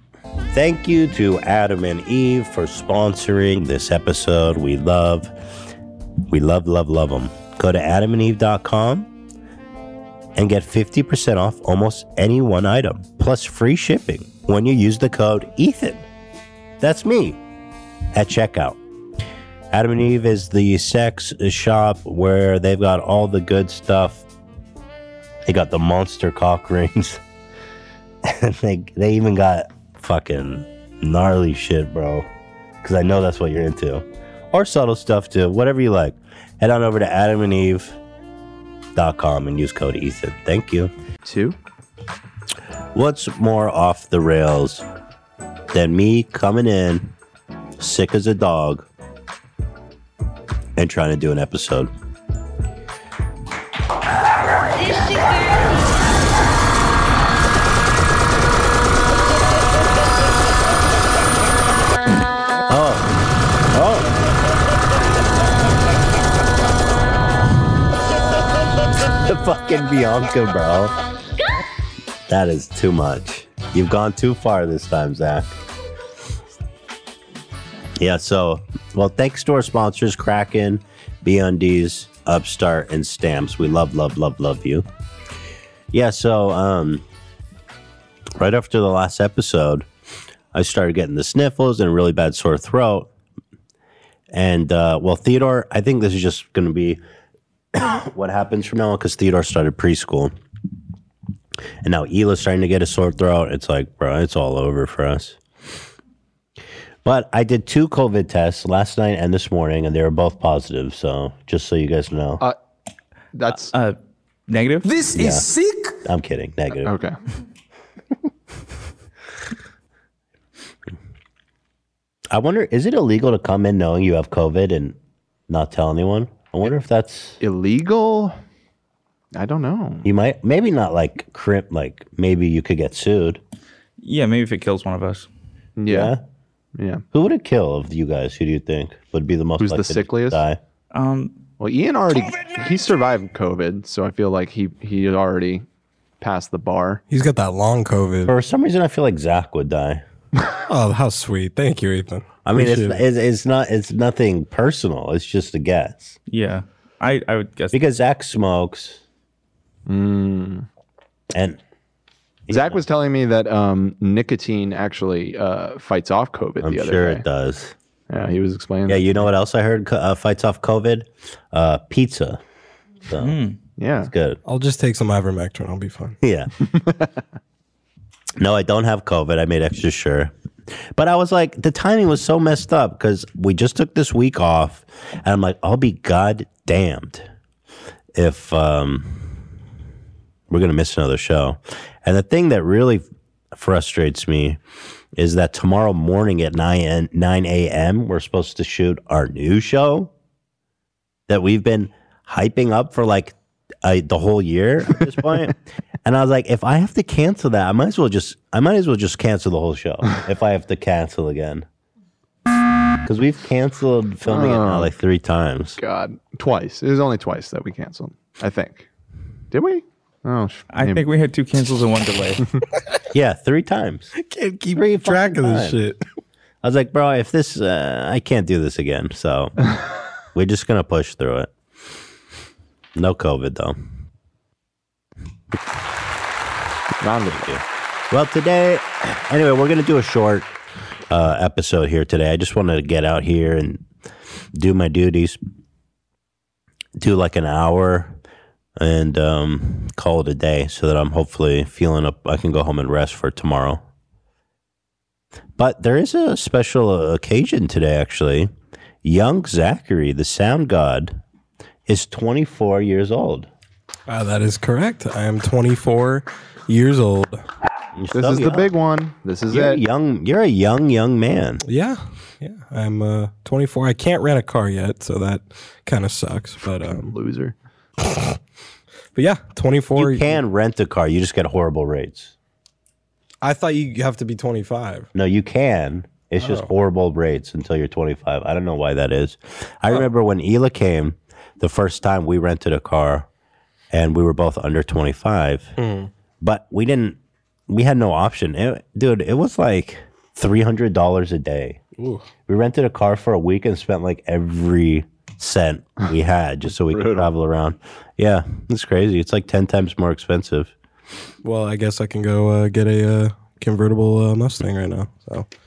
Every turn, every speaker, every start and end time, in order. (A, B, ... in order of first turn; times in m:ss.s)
0:00.5-0:05.3 A
0:06.3-0:09.1 A
0:10.3-0:16.0 A
0:16.8-0:17.4 A
0:18.1-0:18.8 A
0:19.7-0:24.2 A
0:25.4-0:27.2 A
0:28.2-0:32.3 A
0:32.8-0:38.0 A
0:38.9-0:40.9 A
0:41.2-0:41.6 B
0:42.9-0:44.8 A
0:45.7-0:47.1 A
0:47.8-0:48.9 A
0:50.8-0:51.9 A
1:02.7-1:03.1 A
1:03.7-1:04.1 A
1:09.2-1:11.0 A
1:12.3-1:15.5 A
1:18.0-1:24.8 A
1:25.9-1:27.0 A
1:28.4-1:29.9 A
1:30.5-1:33.1 A
1:34.3-1:37.0 A
1:37.7-1:40.3 A
1:41.8-1:45.4 A
1:47.0-1:52.4 A
1:53.3-1:53.7 B
1:53.5-1:54.0 C
1:54.5-1:54.9 C
1:55.1-1:55.5 A
1:56.0-1:56.9 A
1:56.8-1:57.2 B
2:02.3-2:05.0 A
2:05.5-2:07.4 A
2:07.4-2:08.4 B
2:09.3-2:10.0 B
2:10.0-2:13.4 A
2:14.0-2:15.3 C
2:15.8-2:16.1 B
2:15.9-2:16.2 A
2:16.8-2:17.0 B
2:17.1-2:20.6 A
2:19.6-2:20.4 B
2:20.9-2:21.4 C
2:21.6-2:25.6 B
2:26.2-2:27.0 B
2:27.1-2:28.3 D
2:28.2-2:30.0 A
2:30.7-2:33.0 D
2:32.4-2:36.2 A
2:36.3-2:37.8 C
2:37.7-2:39.0 A
2:39.9-2:40.6 B
2:41.3-2:41.6 A
2:42.5-2:42.8 A
2:42.5-2:47.2 B
2:46.6-2:47.7 A
2:48.1-2:49.2 B
2:48.9-2:52.4 A
2:53.1-2:53.4 A
2:53.2-2:53.6 C
2:53.8-2:54.1 B
2:54.0-2:54.4 A
2:54.4-2:56.2 D
2:56.2-2:56.5 A
2:56.7-2:57.1 B
2:58.4-3:07.3 A
3:08.1-3:09.4 A
3:10.5-3:14.6 A
3:15.1-3:20.1 A
3:21.3-3:31.6 A
3:33.0-3:35.8 A
3:34.3-3:34.9 B
3:35.8-3:38.9 B
3:39.5-3:41.0 B
3:40.7-3:42.5 C
3:43.1-3:44.1 A
3:44.2-3:46.0 D
3:44.7-3:45.8 A
3:46.6-3:49.5 A
3:50.3-3:51.5 A
3:52.9-3:53.8 A
3:57.0-3:57.5 B
3:57.3-4:00.5 A
4:01.1-4:03.8 A
4:04.5-4:05.4 A
4:07.0-4:08.2 A
4:08.8-4:13.8 A
4:15.6-4:18.5 A
4:19.0-4:21.2 A
4:21.9-4:23.5 A
4:24.1-4:27.4 D
4:28.0-4:28.7 A
4:28.1-4:29.8 B
4:29.5-4:31.6 A
4:31.6-4:37.2 D
4:36.6-4:37.5 B
4:39.1-4:40.4 D
4:40.0-4:42.3 A
4:43.4-4:45.1 D
4:45.1-4:53.3 A
4:46.4-4:46.7 D
4:53.9-4:55.7 A
4:55.8-4:56.1 D
4:56.4-5:01.8 A
5:02.0-5:02.3 D
5:02.5-5:10.7 A
5:06.9-5:07.3 B
5:11.4-5:15.4 D